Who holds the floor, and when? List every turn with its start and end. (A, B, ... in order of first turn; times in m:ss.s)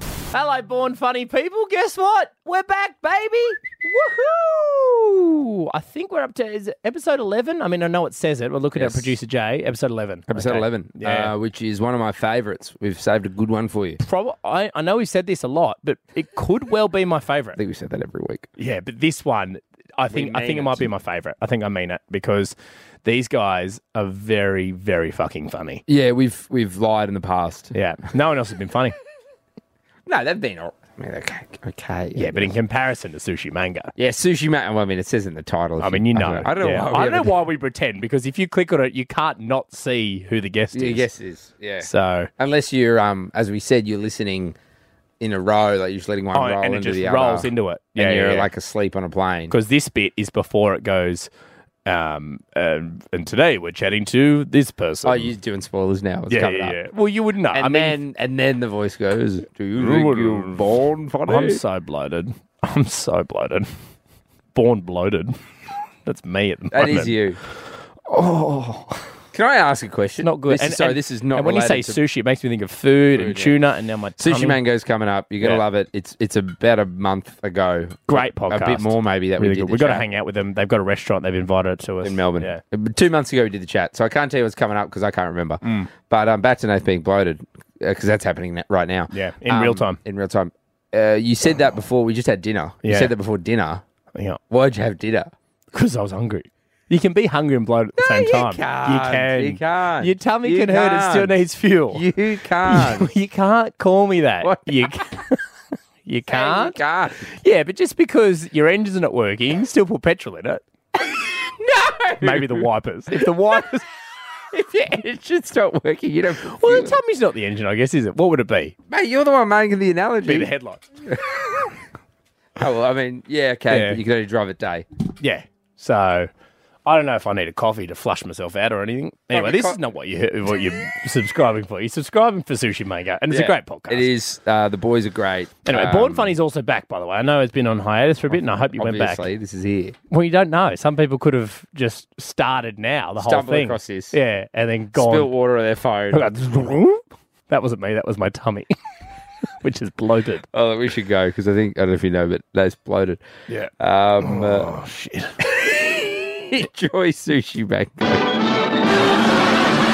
0:00.3-0:11.3 A
0:08.8-0:09.1 B
0:10.3-0:14.0 B
0:14.0-0:17.6 A
0:17.6-0:18.5 B
0:18.6-0:25.8 A
0:20.1-0:20.9 B
0:25.9-0:27.7 B
0:27.7-0:29.0 A
0:30.1-0:32.5 B
0:32.1-0:33.9 A
0:34.0-0:37.3 B
0:35.8-0:41.0 A
0:40.7-0:44.6 B
0:41.8-0:42.3 A
0:45.2-0:49.5 B
0:46.3-0:48.5 A
0:49.5-0:51.3 A
0:51.8-0:55.3 A
0:55.0-0:56.8 B
0:56.3-0:58.0 A
0:57.5-1:01.6 B
0:59.8-1:00.6 A
1:01.2-1:03.7 A
1:04.5-1:05.4 A
1:06.0-1:07.2 A
1:06.7-1:07.4 B
1:08.0-1:09.1 A
1:09.3-1:12.0 B
1:10.2-1:14.6 A
1:13.1-1:13.6 B
1:14.2-1:20.0 B
1:18.1-1:22.6 A
1:22.0-1:33.8 B
1:25.6-1:25.9 A
1:29.1-1:30.0 A
1:32.8-1:33.1 A
1:34.1-1:34.4 A
1:34.5-1:35.3 B
1:35.7-1:42.0 A
1:38.0-1:41.4 B
1:41.9-1:43.1 B
1:42.6-1:45.4 A
1:44.4-1:44.9 B
1:46.0-1:50.6 A
1:46.3-1:47.3 B
1:51.6-1:52.7 B
1:52.2-1:53.8 A
1:54.5-1:56.9 B
1:56.4-1:58.7 A
1:58.9-2:00.5 B
2:00.2-2:00.8 A
2:01.0-2:01.4 B
2:02.6-2:04.8 B
2:03.7-2:04.0 A
2:05.2-2:06.3 A
2:06.8-2:14.1 A
2:09.3-2:09.8 B
2:13.3-2:16.3 B
2:15.6-2:19.3 A
2:18.8-2:20.0 B
2:20.1-2:25.3 A
2:23.2-2:24.1 B
2:24.9-2:26.3 B
2:26.1-2:28.7 A
2:29.6-2:30.4 A
2:30.5-2:33.2 B
2:33.5-2:35.4 A
2:33.8-2:34.7 B
2:35.5-2:38.3 B